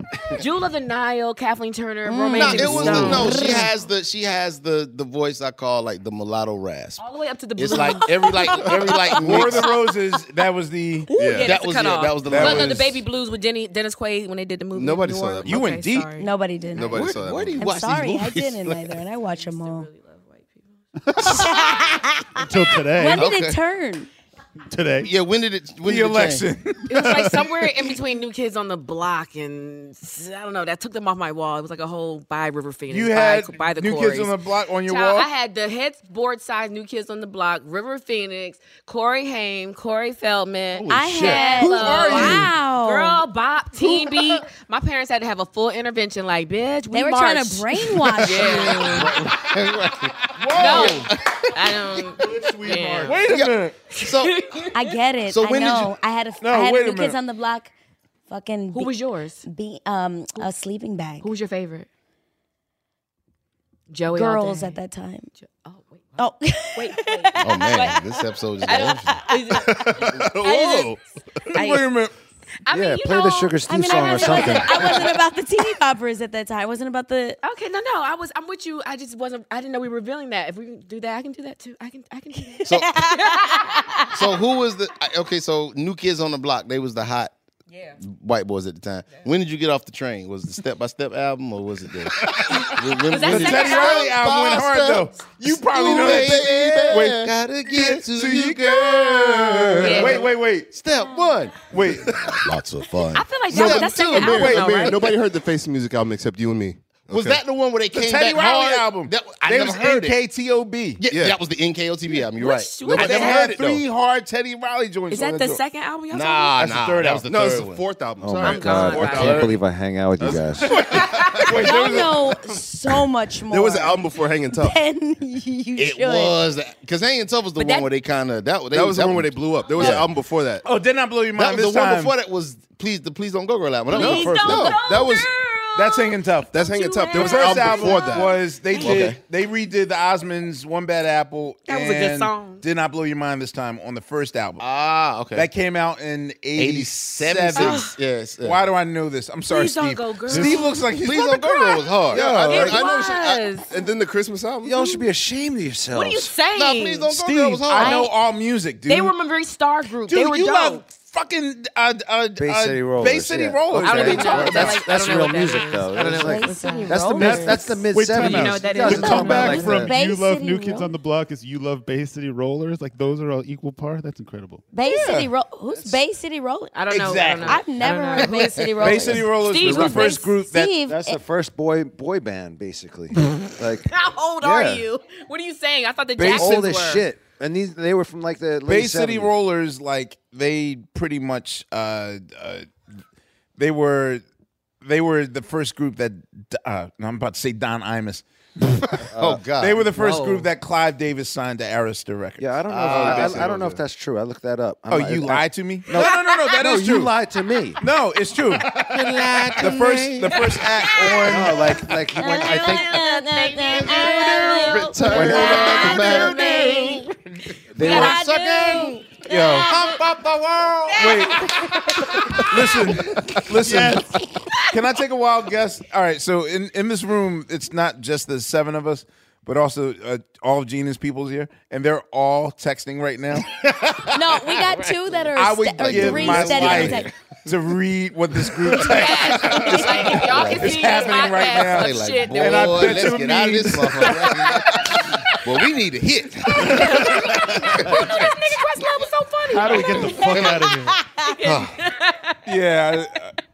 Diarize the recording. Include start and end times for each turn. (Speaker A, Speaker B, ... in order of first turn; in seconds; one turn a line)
Speaker A: 0.3-3.7
Speaker B: 2.0-3.7
Speaker C: 2.3-7.0
Speaker A: 7.0-9.7
Speaker C: 7.5-9.7
Speaker D: 9.2-11.1
Speaker A: 11.1-16.3
Speaker E: 11.1-11.6
Speaker C: 11.4-13.0
Speaker D: 12.2-12.9
Speaker E: 14.7-15.8
Speaker D: 15.4-16.1
Speaker B: 16.2-17.0
Speaker E: 16.7-17.6
Speaker C: 16.8-18.9
Speaker B: 17.6-19.9
Speaker A: 19.3-20.8
Speaker F: 21.1-21.4
Speaker B: 21.2-24.1
Speaker A: 21.4-22.0
Speaker F: 22.4-23.3
Speaker C: 23.1-23.6
Speaker F: 24.7-25.1
Speaker C: 25.0-26.5
Speaker D: 25.8-27.0
Speaker A: 26.9-34.4
Speaker F: 26.9-27.5
Speaker D: 32.9-35.3
Speaker A: 34.9-49.2
Speaker B: 40.9-43.2
Speaker F: 41.0-41.3
Speaker D: 41.5-42.5
Speaker B: 46.9-49.0
Speaker C: 48.8-51.1
Speaker D: 50.4-51.0
Speaker A: 50.5-54.9
Speaker F: 50.6-51.1
Speaker F: 52.2-53.2
Speaker D: 53.0-53.7
Speaker E: 53.1-53.7
Speaker C: 53.3-54.4
Speaker B: 54.7-57.7
Speaker C: 55.3-56.0
Speaker D: 56.4-57.2
Speaker B: 58.3-61.3
Speaker A: 58.7-59.5
Speaker A: 61.2-61.9
Speaker A: 63.9-64.8
Speaker B: 64.1-65.3
Speaker A: 65.4-66.2
Speaker B: 66.2-68.0
Speaker A: 66.7-71.0
Speaker C: 67.4-69.4
Speaker B: 68.7-69.7
Speaker E: 69.6-71.0
Speaker A: 71.5-72.0
Speaker D: 71.5-72.1
Speaker A: 72.7-75.0
Speaker G: 72.7-75.1
Speaker B: 73.7-77.4
Speaker A: 77.4-84.1
Speaker B: 82.5-84.0
Speaker C: 82.6-83.0
Speaker C: 84.1-87.3
Speaker A: 87.7-88.0
Speaker C: 88.0-104.5
Speaker A: 92.5-94.2
Speaker D: 92.6-100.7
Speaker A: 95.9-96.2
Speaker A: 99.8-100.3
Speaker D: 101.7-102.2
Speaker A: 103.1-105.1
Speaker E: 103.5-107.4
Speaker D: 103.5-105.1
Speaker C: 107.1-110.2
Speaker D: 107.9-111.0
Speaker C: 111.0-113.8
Speaker E: 111.0-111.4
Speaker A: 112.3-113.5
Speaker D: 112.9-115.6
Speaker A: 115.1-116.6
Speaker C: 116.1-117.8
Speaker F: 116.6-117.2
Speaker E: 117.2-119.6
Speaker G: 118.2-120.9
Speaker A: 118.4-119.4
Speaker E: 120.2-121.6
Speaker D: 121.0-122.4
Speaker A: 121.0-121.7
Speaker B: 121.4-124.0
Speaker E: 123.5-124.8
Speaker B: 124.5-126.3
Speaker C: 125.8-130.1
Speaker A: 127.5-127.9
Speaker E: 128.7-130.6
Speaker D: 130.6-132.1
Speaker C: 131.4-134.8
Speaker E: 133.9-135.3
Speaker A: 133.9-139.1
Speaker D: 133.9-134.8
Speaker D: 135.8-136.5
Speaker E: 136.5-138.4
Speaker D: 137.1-144.6
Speaker C: 138.8-139.2
Speaker A: 141.7-142.6
Speaker C: 144.6-145.5
Speaker D: 145.3-147.9
Speaker C: 146.6-148.6
Speaker A: 147.6-147.9
Speaker D: 148.4-151.4
Speaker A: 149.5-153.7
Speaker C: 150.3-153.4
Speaker D: 152.1-152.7
Speaker E: 152.1-155.0
Speaker G: 154.6-156.3
Speaker A: 155.9-158.1
Speaker C: 156.5-158.1
Speaker D: 157.2-159.1
Speaker A: 158.8-160.8
Speaker D: 160.1-164.8
Speaker G: 162.4-169.9
Speaker A: 163.8-167.0
Speaker B: 166.2-167.8
Speaker F: 167.0-174.6
Speaker A: 168.1-169.8
Speaker B: 168.8-170.9
Speaker B: 174.7-176.7
Speaker D: 174.9-175.3
Speaker A: 176.7-180.2
Speaker D: 176.9-177.7
Speaker B: 177.4-181.2
Speaker D: 178.8-180.8
Speaker G: 180.9-184.8
Speaker A: 183.9-187.1
Speaker D: 186.2-186.6
Speaker G: 186.2-189.3
Speaker D: 188.7-192.7
Speaker D: 193.6-194.2
Speaker D: 194.8-198.2
Speaker G: 199.0-199.4
Speaker C: 199.2-200.2
Speaker D: 199.6-203.3
Speaker A: 200.0-200.5
Speaker G: 202.4-207.8
Speaker C: 202.7-203.6
Speaker E: 202.8-203.8
Speaker D: 204.9-207.1
Speaker A: 205.9-206.4
Speaker D: 207.8-208.7
Speaker C: 208.9-210.5
Speaker D: 209.6-211.7
Speaker G: 211.2-213.1
Speaker B: 212.2-216.9
Speaker A: 212.2-217.1
Speaker E: 213.8-216.9
Speaker G: 215.1-216.1
Speaker C: 215.2-216.7
Speaker A: 217.8-220.0
Speaker G: 217.8-218.2
Speaker C: 217.8-218.8
Speaker B: 217.8-219.4
Speaker D: 219.2-219.9
Speaker D: 220.6-221.5
Speaker A: 220.9-221.7
Speaker D: 222.4-224.1
Speaker F: 223.5-224.2
Speaker D: 224.7-233.5
Speaker C: 233.6-234.2
Speaker B: 234.1-237.1
Speaker D: 235.3-244.5
Speaker C: 235.8-237.1
Speaker A: 238.8-242.9
Speaker B: 238.8-239.9
Speaker C: 240.0-248.3
Speaker A: 246.6-252.4
Speaker F: 246.8-247.3
Speaker F: 249.5-251.0
Speaker C: 251.4-251.8
Speaker D: 252.4-253.3